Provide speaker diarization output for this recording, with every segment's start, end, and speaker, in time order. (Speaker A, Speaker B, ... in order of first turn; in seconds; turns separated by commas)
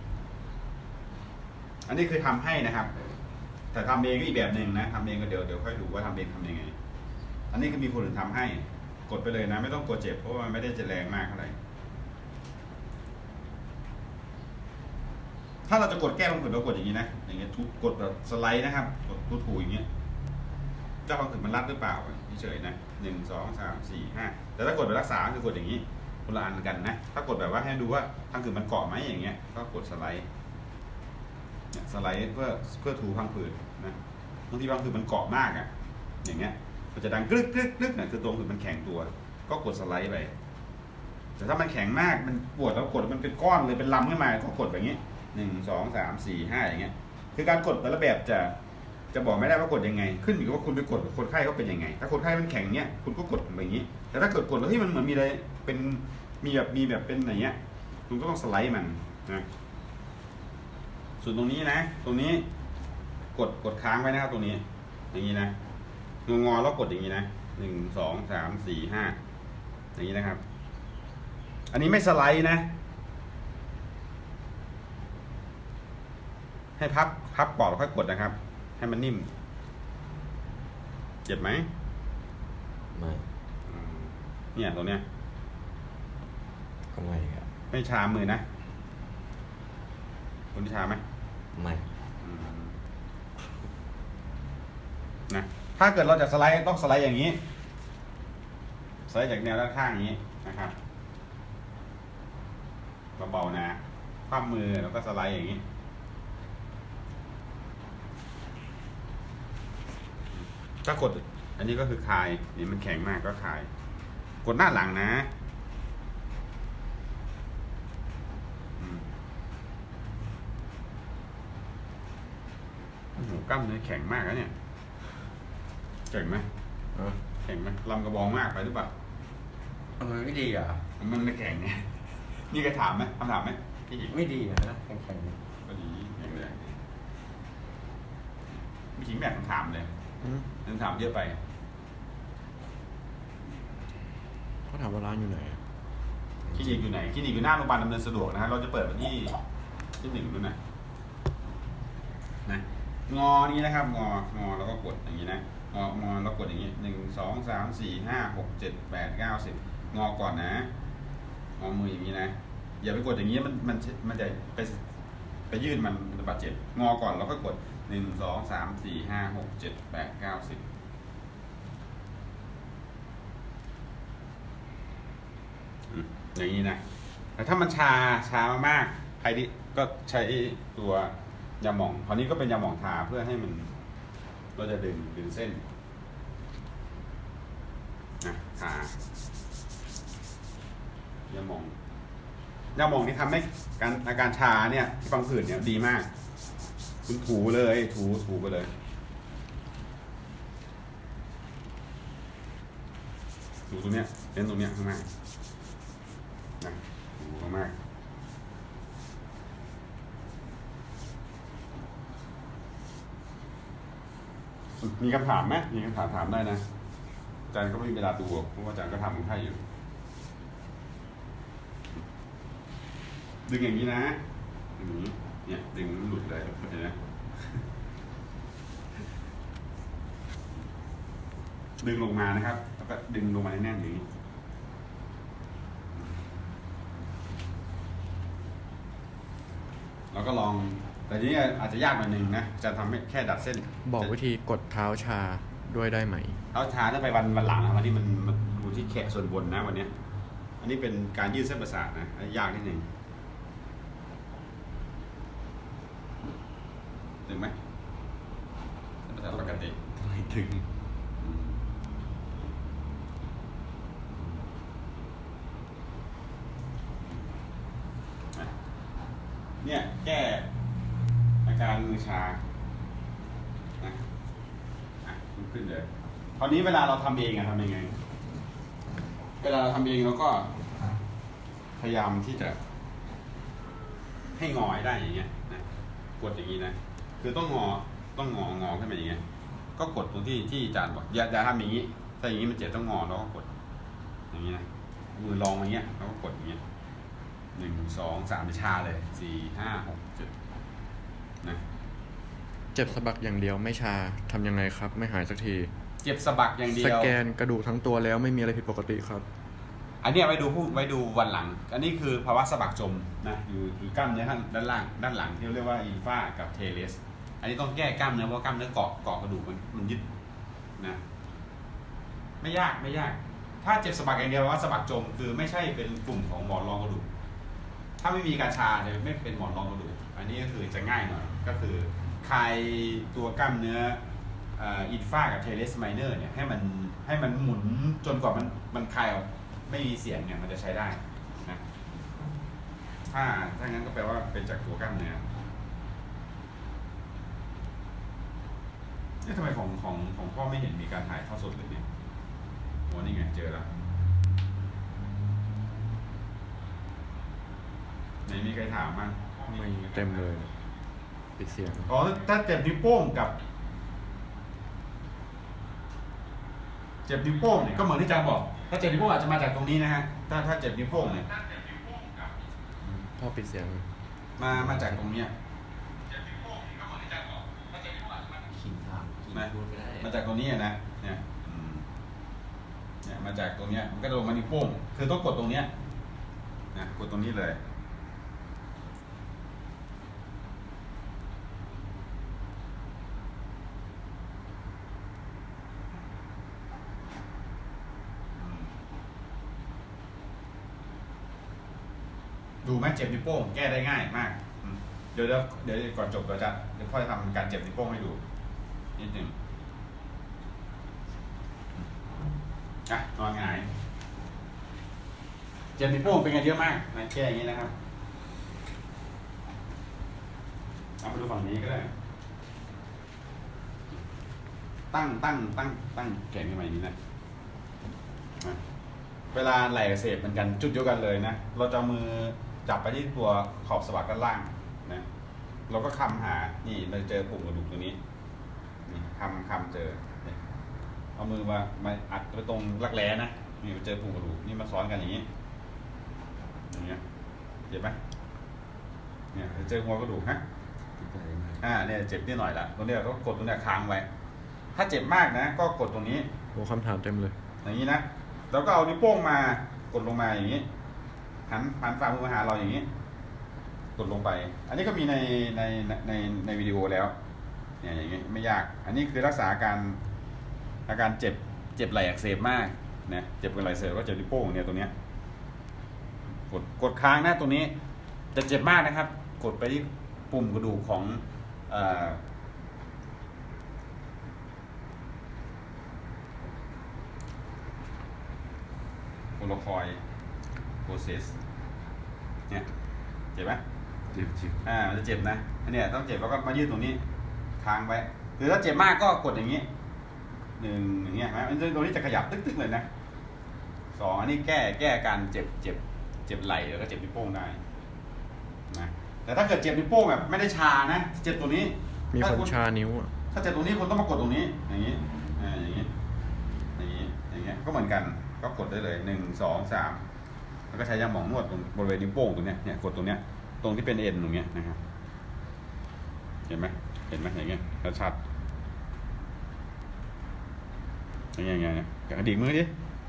Speaker A: 1.9-2.9, Speaker A: 3.7-6.7, Speaker A: 7.5-11.5, Speaker A: 15.7-19.9, Speaker A: 21.1-30.2, Speaker A: 31.7-34.0, Speaker A: 34.5-35.7, Speaker A: 36.2-40.3, Speaker A: 41.4-48.5, Speaker A: 49.1-57.5, Speaker A: 58.1-59.5, Speaker A: 61.2-62.4, Speaker A: 63.3-65.5, Speaker A: 66.3-69.2, Speaker A: 70.0-70.4, Speaker A: 71.7-72.7, Speaker A: 76.8-79.3, Speaker A: 81.2-81.7, Speaker B: 82.9-83.2, Speaker A: 83.7-85.0, Speaker B: 86.9-87.5, Speaker A: 87.7-88.4, Speaker A: 90.5-91.0, Speaker B: 91.5-91.8, Speaker A: 92.2-92.7, Speaker A: 95.3-97.4, Speaker A: 99.1-100.7, Speaker A: 103.2-105.6, Speaker A: 110.4-113.7, Speaker A: 114.4-115.3, Speaker A: 118.8-119.0, Speaker A: 123.2-124.5, Speaker A: 126.1-126.5, Speaker A: 127.4-128.9, Speaker B: 130.0-130.9, Speaker A: 131.0-134.1, Speaker B: 134.1-135.4, Speaker A: 135.7-136.6, Speaker B: 136.4-136.7, Speaker A: 138.9-139.9, Speaker A: 140.6-141.4, Speaker C: 144.7-145.6, Speaker A: 146.5-149.3, Speaker A: 150.0-150.6, Speaker A: 152.4-160.7, Speaker A: 161.6-164.8, Speaker A: 165.5-170.6, Speaker A: 175.9-176.8, Speaker A: 177.4-183.7, Speaker A: 184.6-185.6, Speaker A: 188.2-189.0, Speaker A: 191.3-191.8, Speaker A: 192.8-196.1, Speaker A: 197.1-198.7, Speaker A: 203.7-205.1, Speaker A: 206.6-207.7, Speaker A: 214.8-216.6, Speaker A: 217.5-219.6, Speaker A: 223.5-224.2, Speaker A: 224.8-227.0, Speaker A: 231.8-234.1, Speaker A: 240.1-244.1, Speaker C: 243.8-246.4, Speaker A: 246.5-249.9, Speaker A: 250.6-252.9, Speaker A: 257.2-257.5, Speaker A: 259.1-259.8, Speaker B: 259.3-260.7, Speaker A: 261.2-261.6, Speaker A: 269.6-270.5, Speaker A: 271.4-272.4, Speaker A: 275.1-278.0, Speaker A: 279.4-280.5, Speaker A: 281.8-282.6, Speaker A: 284.4-285.6, Speaker A: 286.2-289.2, Speaker A: 289.8-293.5, Speaker A: 294.3-296.6, Speaker A: 297.5-300.3, Speaker C: 302.7-305.7, Speaker A: 306.0-307.1, Speaker C: 306.7-309.2, Speaker A: 310.0-320.1, Speaker A: 322.4-327.1, Speaker A: 328.0-334.0, Speaker A: 334.6-341.6, Speaker A: 343.1-345.2, Speaker A: 349.2-351.8, Speaker A: 352.9-353.7, Speaker A: 358.2-359.3, Speaker C: 359.4-360.5, Speaker C: 361.4-361.9, Speaker A: 361.9-363.4, Speaker A: 367.1-371.6, Speaker C: 373.0-373.9, Speaker A: 374.4-375.3, Speaker C: 374.5-374.9, Speaker A: 376.1-377.6, Speaker B: 377.9-380.1, Speaker A: 379.3-381.8, Speaker A: 383.0-385.7, Speaker A: 386.7-387.6, Speaker A: 398.4-398.7, Speaker A: 402.6-408.2, Speaker A: 409.0-409.3, Speaker A: 412.9-413.7, Speaker A: 415.8-417.7, Speaker A: 421.0-421.9, Speaker A: 424.9-426.9, Speaker A: 429.3-435.0, Speaker A: 435.7-438.0, Speaker A: 438.9-440.4, Speaker A: 441.2-445.2, Speaker A: 446.7-447.0, Speaker A: 447.7-448.0, Speaker A: 449.3-450.4, Speaker B: 451.0-451.6, Speaker A: 451.6-454.1, Speaker A: 454.7-456.3, Speaker C: 456.5-457.3, Speaker A: 457.6-460.6, Speaker A: 461.5-462.9, Speaker A: 463.9-467.1, Speaker A: 467.8-470.0, Speaker A: 470.9-474.9, Speaker A: 476.5-477.7, Speaker A: 478.3-482.2, Speaker A: 489.4-490.0, Speaker A: 490.8-491.3, Speaker A: 493.3-493.6, Speaker B: 494.1-494.6, Speaker A: 494.6-497.0, Speaker A: 497.6-499.7, Speaker A: 500.6-502.9, Speaker A: 503.9-507.6, Speaker A: 508.7-512.5, Speaker C: 512.1-513.1, Speaker A: 513.3-515.9, Speaker A: 516.8-520.0, Speaker A: 520.7-524.8, Speaker A: 526.5-528.2, Speaker A: 531.4-532.7